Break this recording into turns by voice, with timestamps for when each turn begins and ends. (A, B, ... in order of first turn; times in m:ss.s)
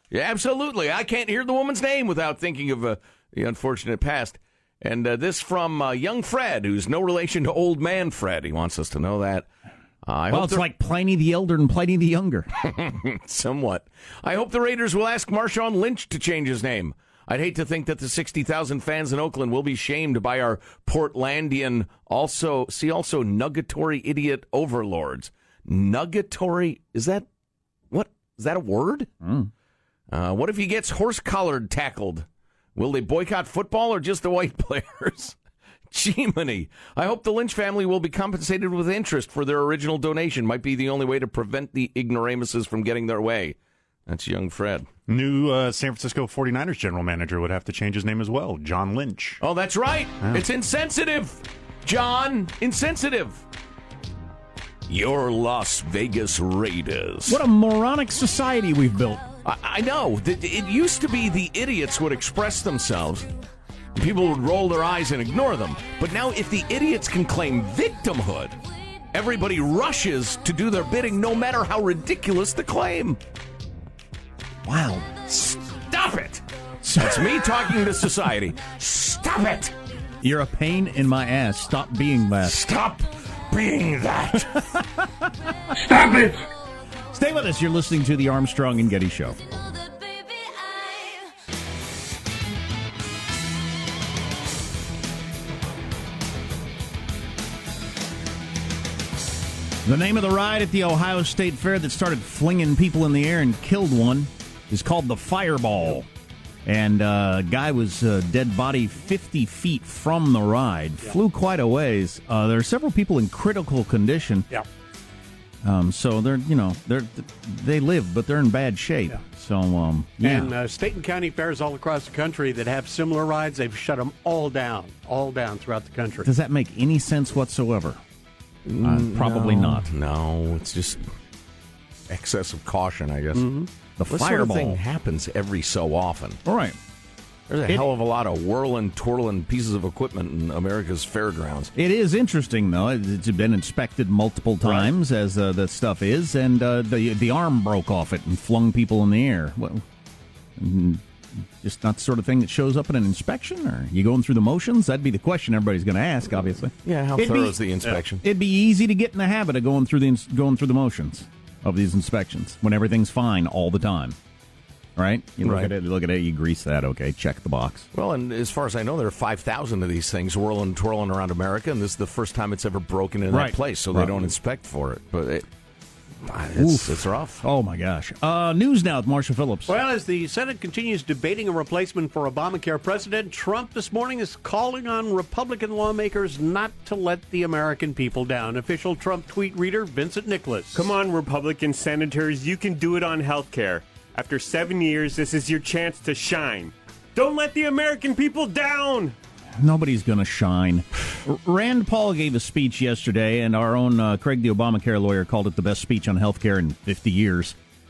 0:00.1-0:09.5 A
0:10.0-0:10.7 A
0:10.3-0:12.5 B
0:12.6-0:27.3 A
0:27.9-0:29.1 A
0:29.2-0:29.5 B
0:30.1-0:35.4 A
0:35.9-0:43.6 A
0:44.1-0:44.9 A
0:45.1-0:49.4 C
0:49.4-0:53.4 A
0:54.9-0:57.4 A
0:57.3-0:59.3 B
0:59.4-1:03.3 A
1:04.0-1:08.6 A
1:09.1-1:13.2 A
1:14.6-1:15.5 B
1:15.5-1:16.4 A
1:16.8-1:17.7 B
1:17.0-1:19.7 A
1:20.2-1:22.6 B
1:22.4-1:24.6 A
1:24.6-1:25.3 B
1:27.1-1:29.4 B
1:39.8-1:46.1 B
1:46.7-1:54.5 B
1:55.6-2:00.5 B
2:00.2-2:06.3 D
2:06.2-2:08.0 B
2:08.7-2:11.0 A
2:08.8-2:09.9 B
2:12.1-2:13.5 A
2:13.4-2:13.7 D
2:14.0-2:14.8 B
2:14.1-2:16.4 A
2:16.4-2:16.8 B
2:17.5-2:21.7 A
2:21.8-2:29.8 B
2:24.6-2:24.9 A
2:30.6-2:31.0 B
2:31.6-2:44.2 B
2:36.8-2:38.2 A
2:45.0-2:47.9 B
2:45.4-2:45.7 A
2:47.9-2:55.5 A
2:53.3-2:54.3 B
2:56.2-2:57.4 A
2:56.6-2:59.8 B
2:59.7-3:10.9 D
3:10.7-3:19.2 E
3:19.6-3:27.6 B